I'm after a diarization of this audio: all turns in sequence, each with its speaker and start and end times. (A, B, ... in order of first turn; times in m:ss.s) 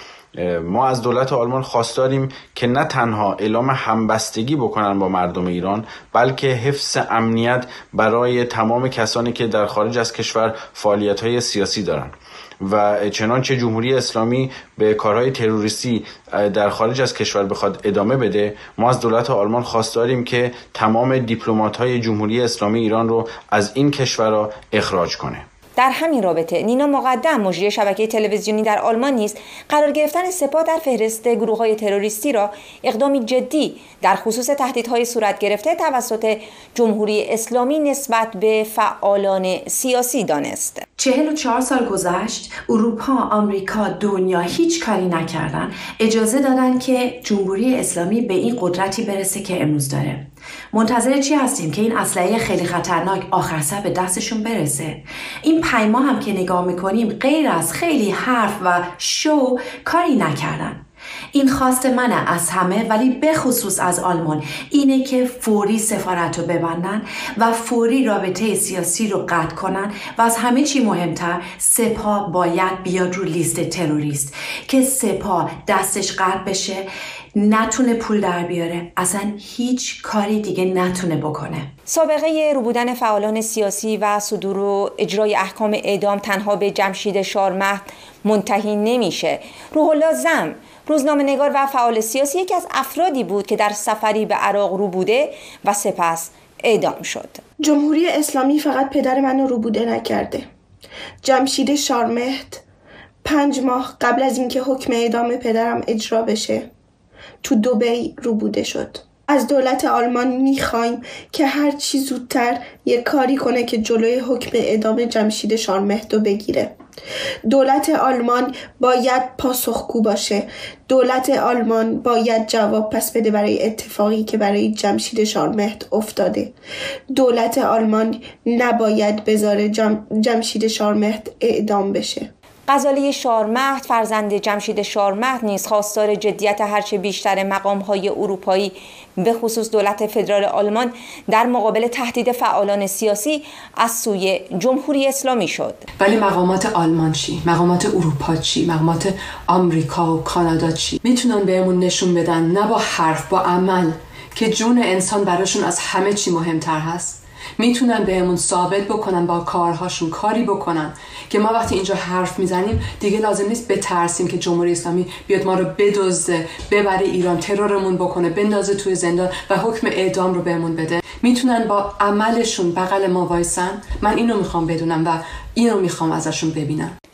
0:00.4-0:25.4 A
0:25.8-0:40.8 B
0:41.0-1:00.8 C
1:01.3-1:21.7 C
1:21.9-1:37.4 B
1:37.6-1:40.5 D
1:41.2-1:42.6 D
1:43.2-1:46.7 D
1:47.4-1:56.7 D
1:57.5-2:06.5 D
2:07.1-2:12.3 D
2:12.7-2:25.8 B
2:26.0-2:57.0 E